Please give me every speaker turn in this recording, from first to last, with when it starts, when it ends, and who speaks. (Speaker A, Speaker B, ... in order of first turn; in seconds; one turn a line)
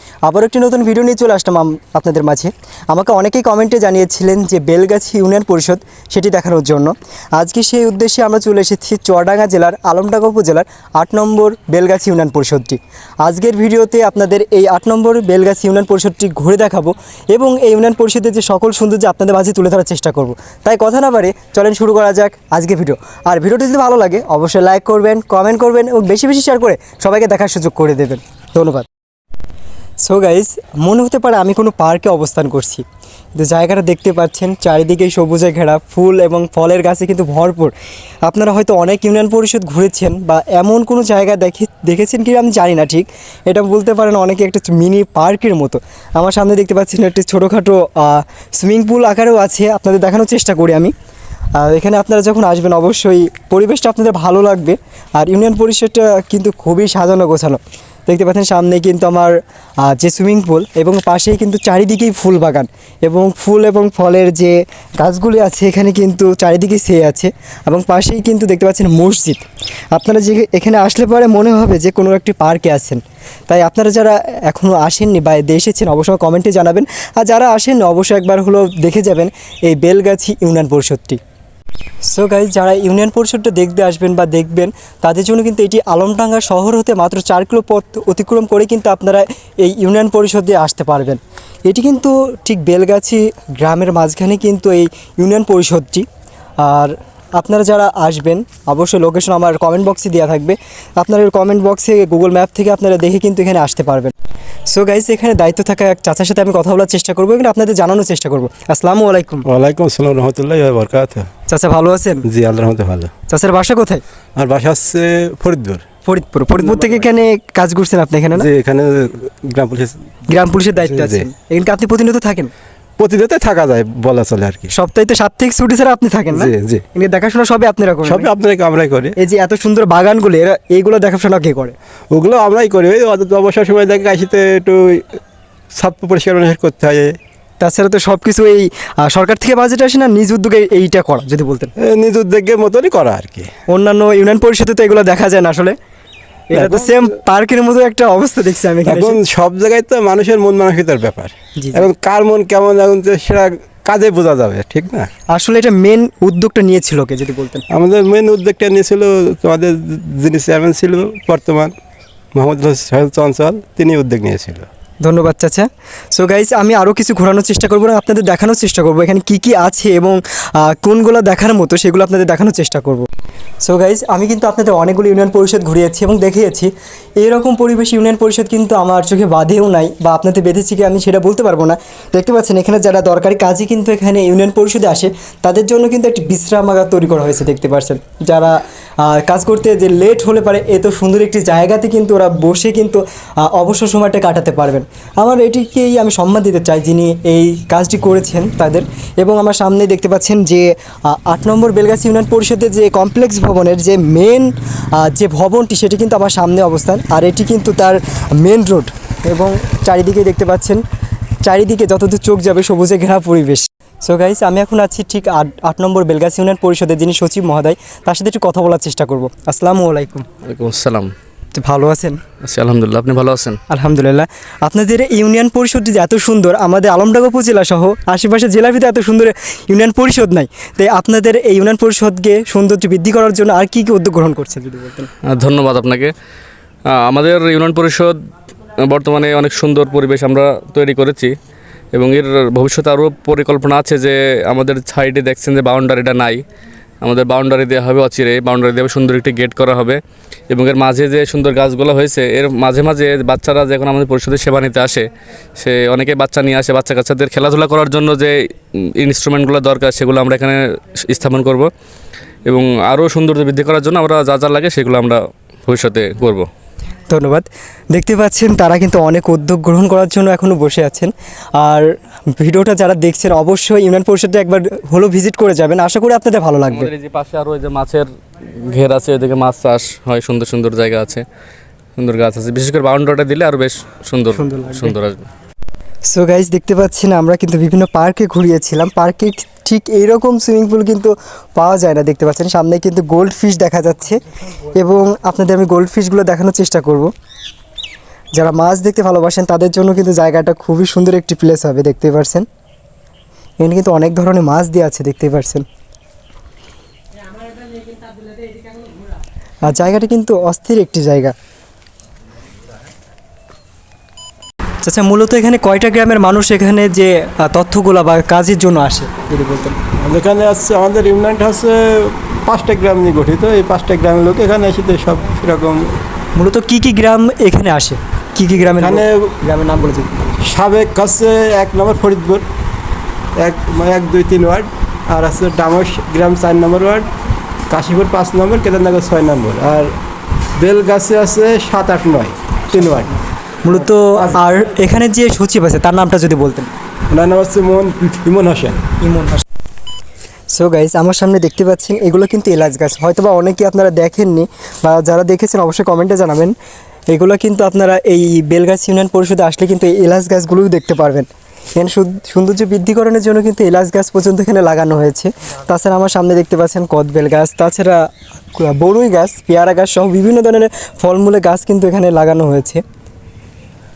Speaker A: 0.2-28.9
Speaker A: 30.0-32.8
Speaker A: 33.4-37.7
Speaker A: 38.2-50.9
Speaker A: 51.6-81.2
Speaker A: 82.0-96.0
Speaker A: 96.6-104.1
Speaker A: 104.7-109.5
Speaker B: 109.5-111.3
Speaker A: 111.5-112.2
Speaker B: 112.2-113.1
Speaker A: 113.3-114.0
Speaker B: 114.3-115.8
Speaker A: 116.0-118.5
Speaker B: 116.6-117.0
Speaker B: 118.3-120.0
Speaker A: 120.3-122.5
Speaker B: 120.8-121.3
Speaker B: 123.0-124.7
Speaker A: 124.7-128.3
Speaker B: 126.3-126.8
Speaker B: 128.0-129.2
Speaker A: 129.2-131.7
Speaker B: 132.1-135.2
Speaker B: 135.7-137.2
Speaker A: 137.6-141.7
Speaker B: 141.8-143.5
Speaker A: 143.7-145.8
Speaker A: 146.5-149.2
Speaker B: 146.5-147.1
Speaker B: 148.8-155.1
Speaker A: 151.6-151.8
Speaker A: 155.3-157.6
Speaker B: 157.7-161.7
Speaker B: 162.3-164.7
Speaker A: 165.0-173.1
Speaker A: 173.6-210.8
Speaker A: 211.4-220.2
Speaker C: 220.4-221.1
Speaker A: 221.5-222.2
Speaker C: 222.4-223.6
Speaker A: 223.7-235.1
Speaker C: 235.2-236.1
Speaker C: 236.9-238.2
Speaker C: 238.8-241.3
Speaker C: 241.9-246.4
Speaker C: 247.0-261.7
Speaker C: 262.4-266.5
Speaker A: 267.1-276.9
Speaker C: 276.7-278.1
Speaker C: 278.6-281.2
Speaker C: 282.0-285.2
Speaker A: 284.3-284.9
Speaker A: 286.1-297.1
Speaker A: 298.3-302.5
Speaker A: 303.6-305.6
Speaker A: 309.6-311.3
Speaker A: 314.8-319.8
Speaker B: 320.0-326.0
Speaker A: 326.3-330.3
Speaker B: 328.8-329.3
Speaker B: 330.4-332.5
Speaker B: 333.4-337.1
Speaker B: 337.7-339.9
Speaker B: 340.6-343.2
Speaker A: 343.6-346.7
Speaker B: 344.0-344.4
Speaker B: 347.1-348.9
Speaker A: 349.0-349.4
Speaker A: 350.5-356.5
Speaker A: 357.1-372.8